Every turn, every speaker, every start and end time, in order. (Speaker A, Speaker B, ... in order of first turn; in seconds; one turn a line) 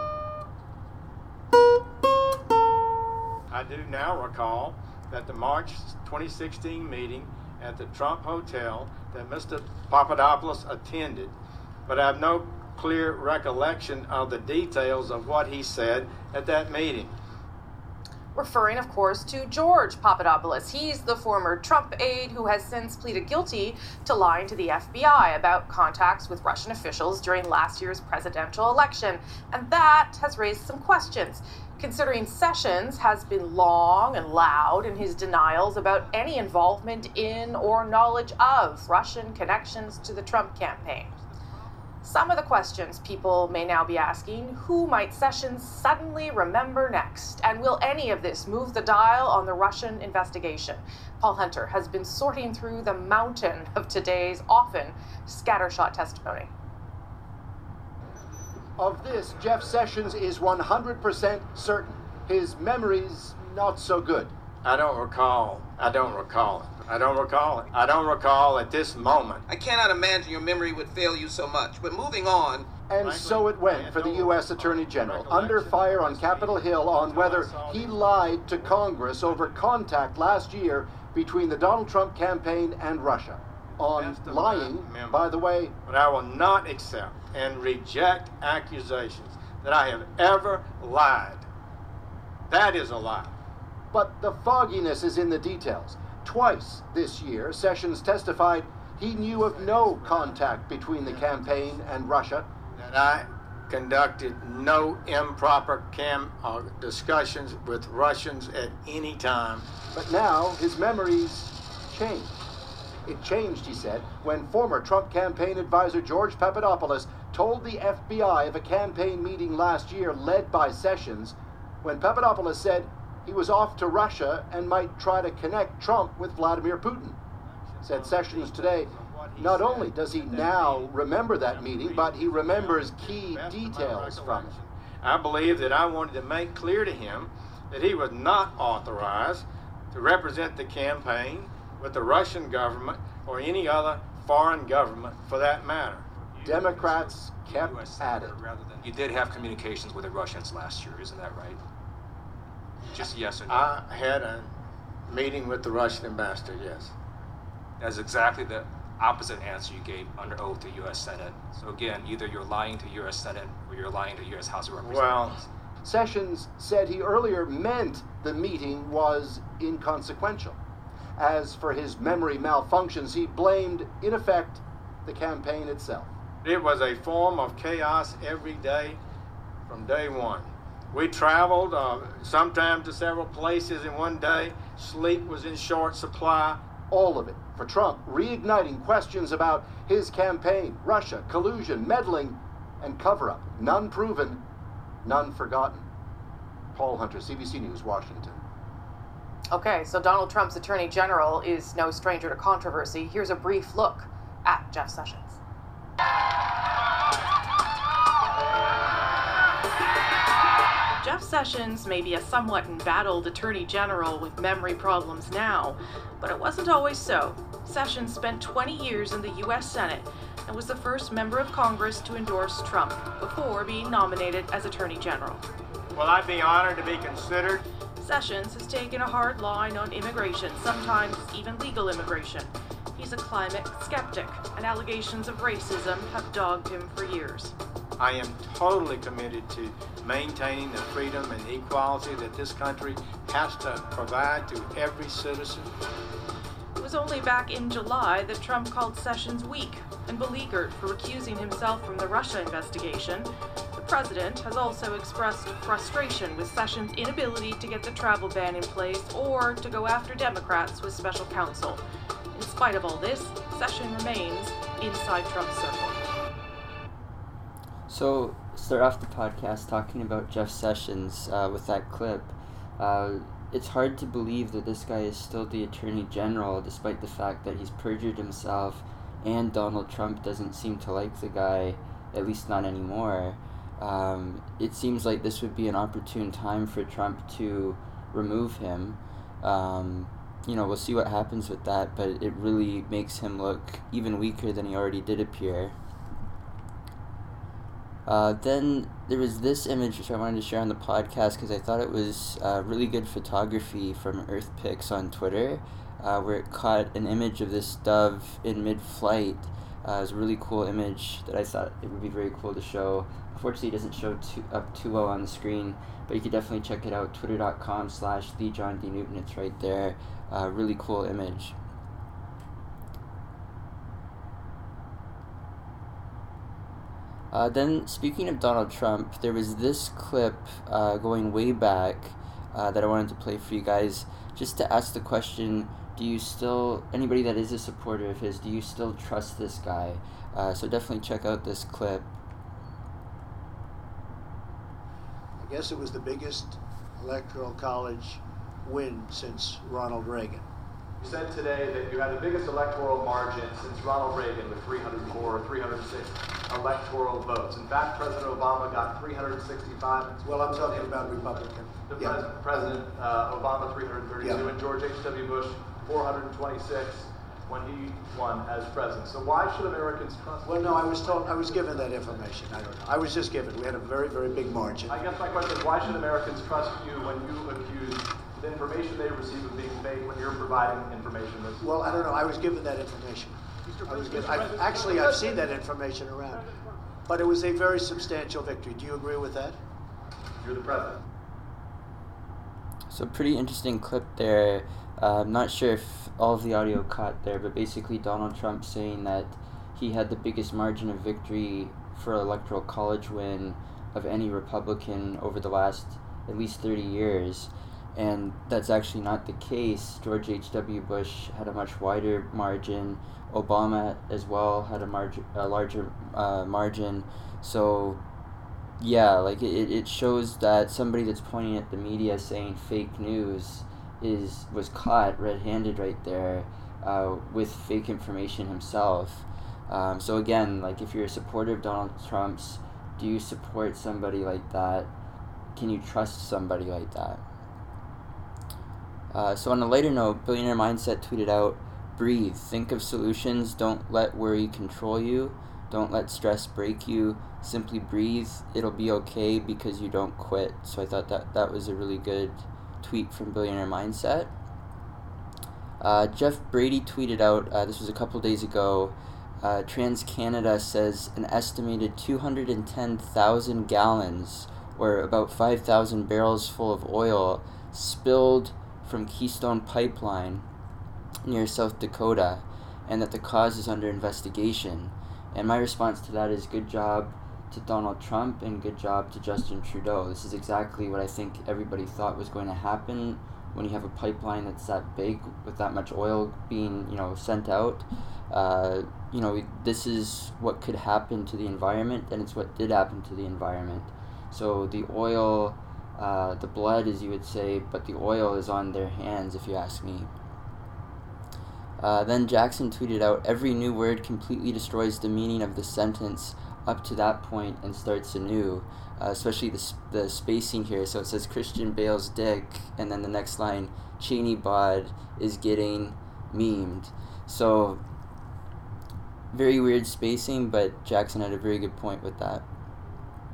Speaker A: 3.5-11.3
Speaker A: 11.9-17.2
Speaker B: 18.4-41.1
Speaker B: 42.0-56.5
Speaker C: 58.8-64.3
Speaker A: 64.6-69.4
Speaker D: 69.5-72.7
Speaker C: 72.9-85.8
Speaker A: 73.0-79.7
Speaker A: 83.9-85.3
Speaker A: 85.8-91.5
Speaker A: 92.5-93.3
Speaker C: 93.9-102.5
Speaker A: 99.3-101.6
Speaker A: 102.8-109.7
Speaker C: 109.9-112.4
Speaker C: 113.0-127.2
Speaker A: 127.7-146.1
Speaker C: 127.8-134.5
Speaker E: 146.3-151.6
Speaker C: 146.4-148.4
Speaker E: 152.9-153.7
Speaker A: 153.5-154.5
Speaker A: 155.1-156.9
Speaker E: 157.8-165.4
Speaker A: 164.8-165.4
Speaker C: 165.8-170.6
Speaker C: 171.2-176.1
Speaker A: 176.4-179.0
Speaker A: 179.7-186.6
Speaker C: 186.9-194.4
Speaker C: 195.1-195.9
Speaker C: 196.7-198.4
Speaker B: 199.5-205.4
Speaker B: 211.0-225.4
Speaker A: 225.9-227.6
Speaker B: 228.0-237.6
Speaker A: 238.0-245.8
Speaker B: 246.8-261.8
Speaker B: 262.3-266.0
Speaker F: 267.9-295.8
Speaker F: 298.1-321.6
Speaker F: 327.3-342.1
Speaker G: 345.4-350.5
Speaker H: 351.0-373.1
Speaker G: 360.2-362.2
Speaker G: 364.2-364.5
Speaker G: 370.4-375.0
Speaker H: 374.9-382.0
Speaker G: 381.6-386.5
Speaker H: 383.7-385.5
Speaker G: 387.1-389.6
Speaker H: 390.4-391.0
Speaker F: 392.9-418.0
Speaker F: 418.8-434.9
Speaker F: 435.6-437.2
Speaker F: 439.1-454.3
Speaker F: 455.8-470.5
Speaker F: 471.2-500.1
Speaker F: 501.8-517.8
Speaker F: 519.3-522.5